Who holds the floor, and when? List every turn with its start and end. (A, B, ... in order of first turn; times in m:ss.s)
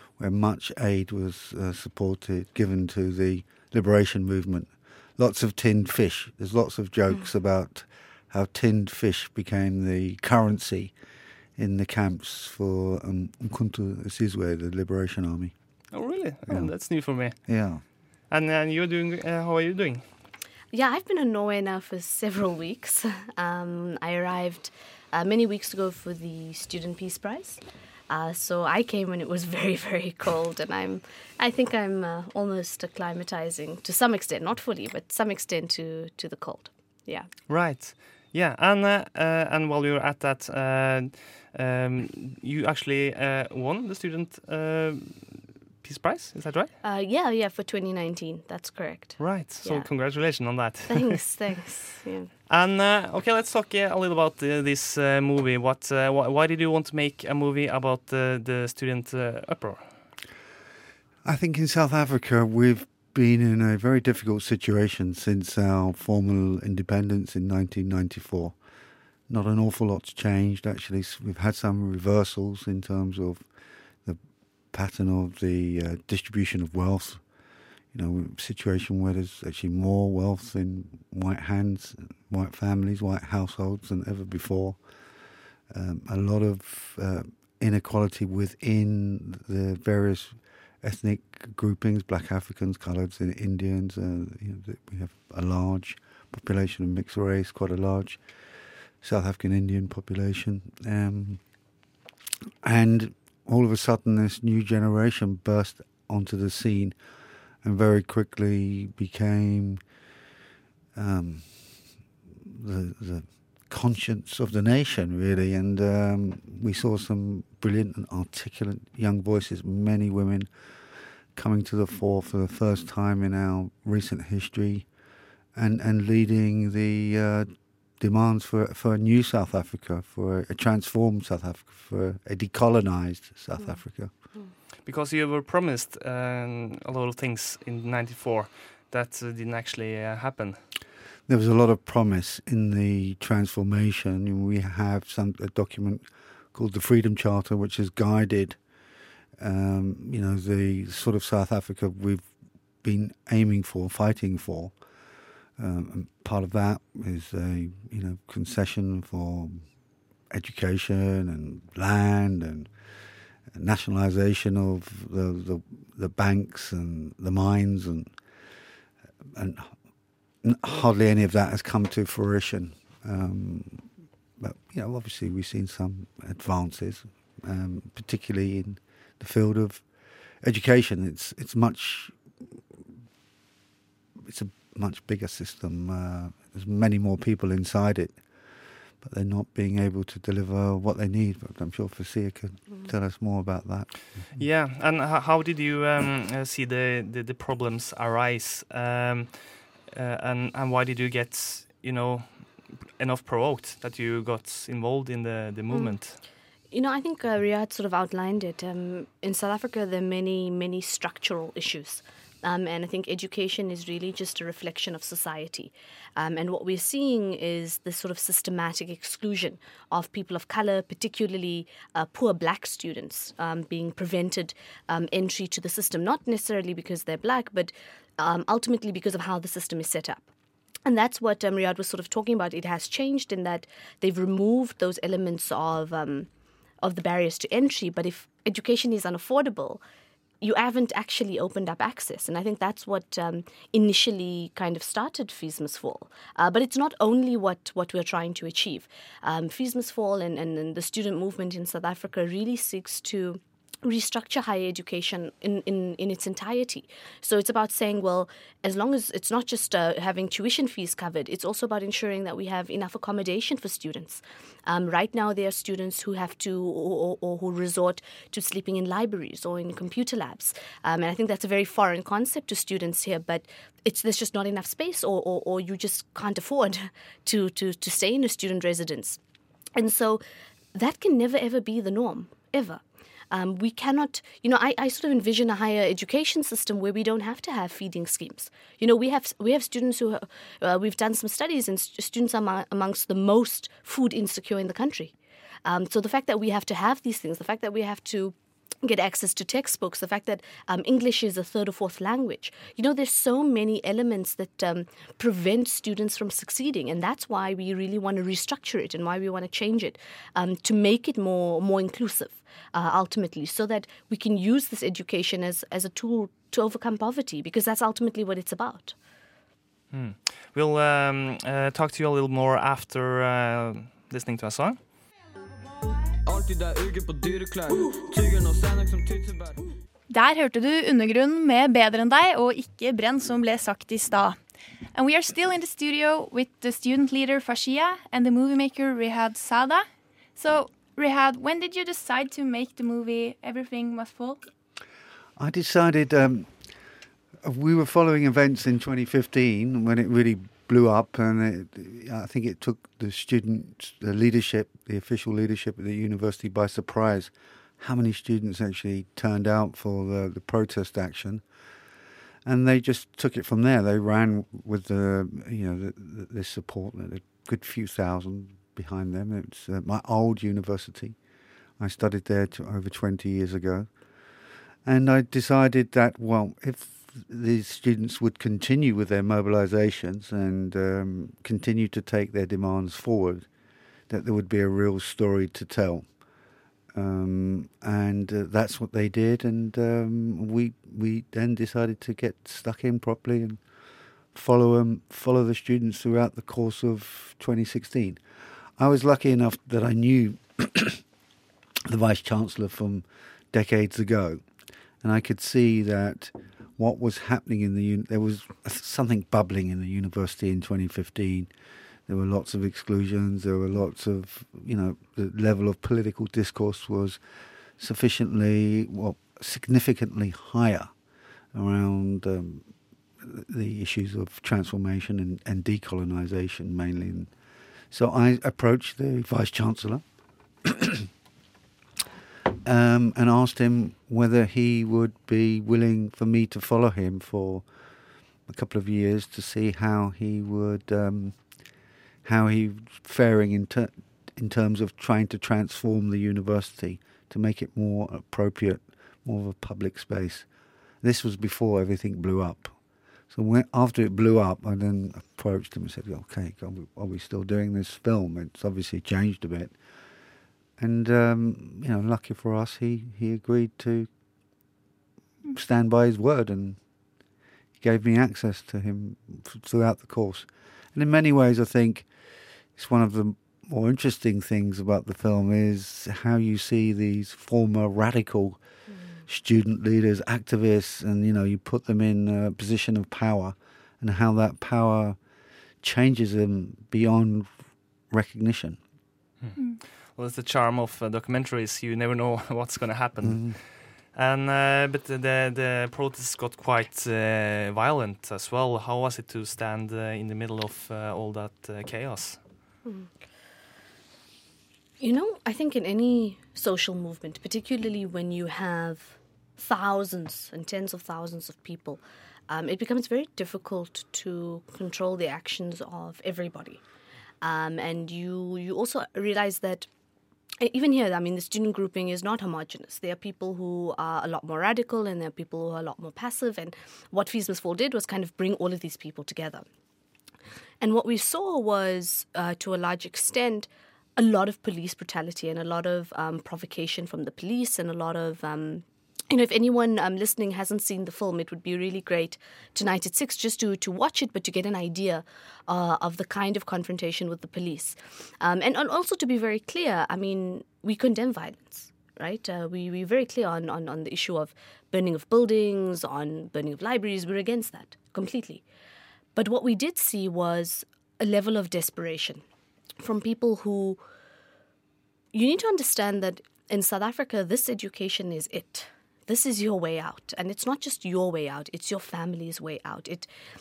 0:00.2-0:11.0 A
0:11.6-0:15.5 A
0:15.9-0:17.6 B
0:16.5-0:17.8 A
0:18.3-0:20.0 B
0:20.7-0:37.3 C
0:37.5-0:46.7 B
0:46.8-0:49.9 C
0:49.2-0:51.2 B
0:50.9-0:52.3 C
0:52.5-0:59.9 B
1:01.2-1:08.6 A
1:09.3-1:13.5 A
1:14.0-1:17.2 A
1:17.9-1:24.8 A
1:25.7-1:38.3 A
1:39.0-1:41.7 A
1:42.6-1:47.0 A
1:47.6-1:49.8 A
1:51.0-2:00.7 A
2:01.3-2:04.9 A
2:05.6-2:14.1 A
2:14.9-2:20.6 B
2:21.3-2:28.6 A
2:29.4-2:32.3 A
2:32.8-2:34.8 A
2:35.6-2:39.6 A
2:40.3-2:42.7 A
2:43.5-2:48.1 A
2:49.3-2:49.8 A
2:50.4-2:59.9 A
3:00.4-3:02.6 A
3:04.2-3:08.2 A
3:09.0-3:14.1 A
3:14.4-3:26.2 B
3:26.7-3:50.3 C
3:50.8-3:56.3 C
3:56.8-3:59.8 C
4:00.4-4:39.2 C
4:39.8-4:40.2 C
4:40.7-4:55.1 C
4:55.6-5:18.9 C
5:19.9-5:24.8 B
5:26.2-5:29.6 D
5:30.1-5:34.4 E
5:34.9-5:44.4 E
5:45.4-5:46.6 A
5:47.4-6:01.4 A
6:02.4-6:11.2 A
6:11.8-6:13.9 A
6:14.8-6:23.5 A
6:24.1-6:26.1 A
6:26.9-6:33.6 A
6:34.3-6:38.2 A
6:38.8-6:41.0 A
6:41.9-6:44.4 A
6:45.0-6:51.5 A
6:52.1-6:57.2 A
6:57.8-7:00.9 A
7:01.5-7:07.3 A
7:07.9-7:10.0 A
7:10.6-7:11.1 A
7:12.6-7:17.7 A
7:18.5-7:21.4 A
7:22.2-7:30.5 A
7:31.0-7:32.8 A
7:33.3-7:39.8 A
7:40.8-7:44.1 A
7:45.5-7:46.8 A
7:47.8-7:52.1 A
7:52.7-7:58.6 A
7:59.3-8:05.2 A
8:05.8-8:07.5 A
8:08.1-8:08.8 A
8:10.1-8:22.4 B
8:13.2-8:13.6 A
8:25.0-8:36.8 C
8:37.4-8:39.9 C
8:40.6-8:49.6 C
8:50.8-9:18.6 C
9:19.4-9:22.4 C
9:23.0-9:24.0 C
9:25.3-9:33.3 C